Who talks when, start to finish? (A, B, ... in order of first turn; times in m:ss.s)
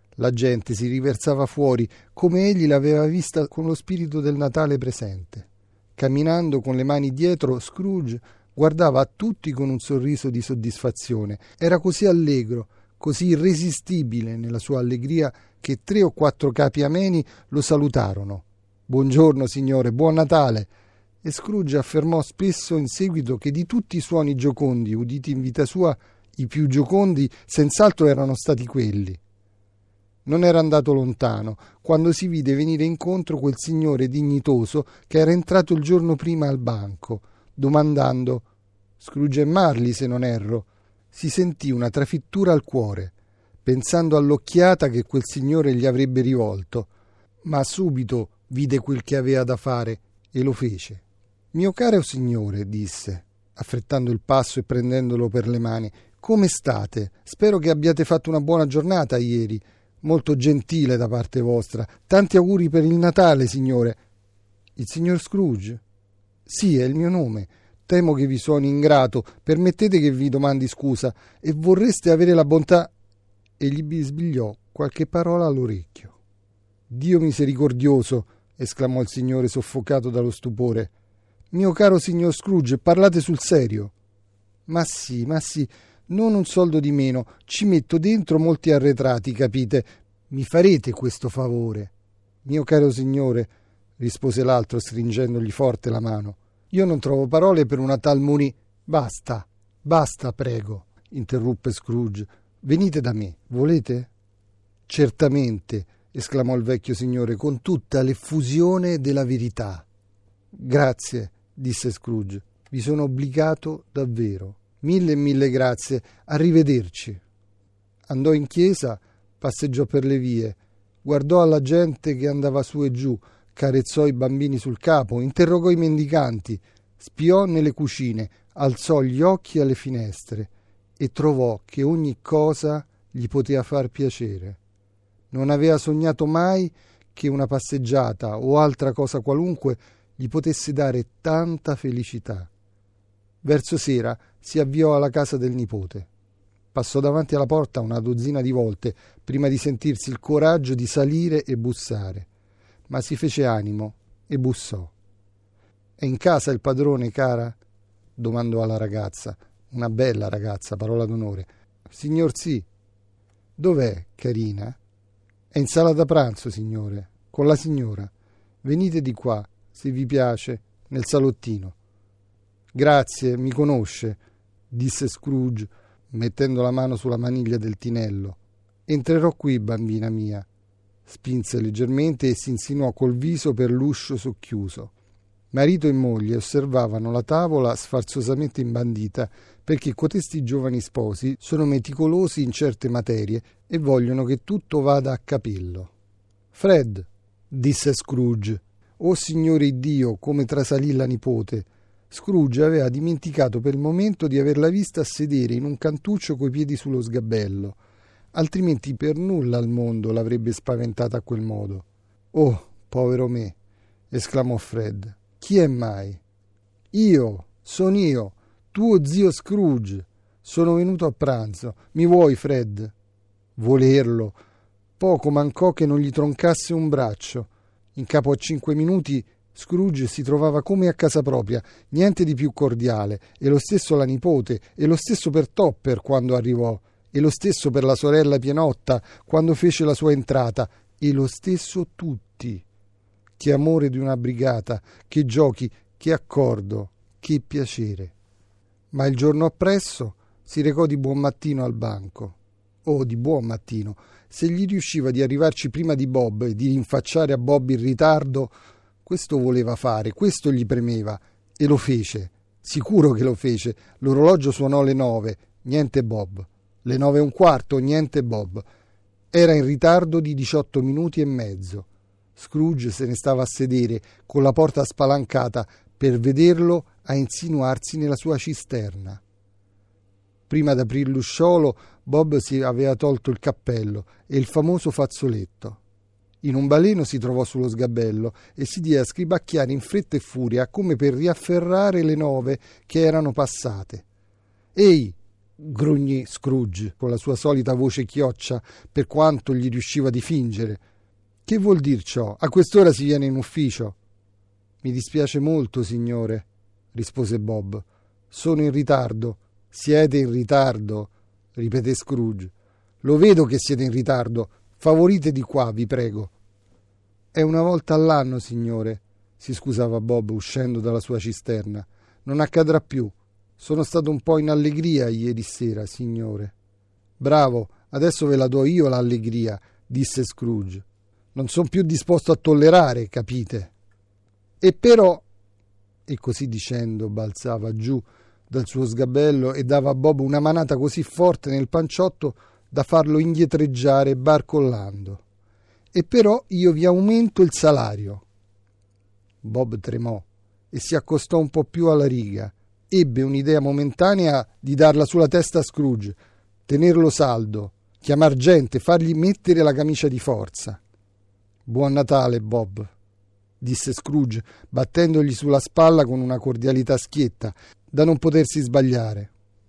0:00.2-0:20.7 A
0:21.2-0:29.2 A
0:30.3-0:38.5 A
0:39.0-0:43.1 A
0:43.6-0:46.9 A
0:47.4-0:51.0 A
0:51.5-1:04.0 A
1:04.8-1:05.8 A
1:06.5-1:12.9 A
1:13.6-1:16.2 A
1:16.9-1:20.9 A
1:21.5-1:23.9 A
1:24.7-1:31.9 A
1:32.4-1:44.1 A
1:44.9-1:49.9 A
1:50.5-1:57.2 A
1:58.1-2:14.6 A
2:15.3-2:22.5 A
2:23.4-2:26.1 A
2:26.7-2:32.3 A
2:32.9-2:34.9 A
2:36.0-2:37.6 A
2:38.2-2:42.7 A
2:43.6-2:44.8 A
2:45.5-2:48.1 A
2:48.6-2:51.8 A
2:52.7-3:00.5 A
3:01.1-3:04.9 A
3:05.5-3:15.9 A
3:16.5-3:27.8 A
3:28.3-3:33.6 A
3:34.1-3:36.2 A
3:36.9-3:42.9 A
3:43.6-3:44.4 A
3:45.0-4:02.6 A
4:03.4-4:08.1 A
4:08.9-4:28.7 A
4:29.3-4:39.2 A
4:40.5-4:45.8 A
4:46.4-4:54.0 A
4:54.8-5:00.8 A
5:01.5-5:04.0 A
5:04.8-5:16.3 A
5:17.3-5:26.5 A
5:27.2-5:33.7 A
5:34.6-5:35.2 A
5:36.1-5:45.2 A
5:45.9-5:48.2 A
5:49.4-6:00.8 A
6:01.7-6:02.9 A
6:03.6-6:09.3 A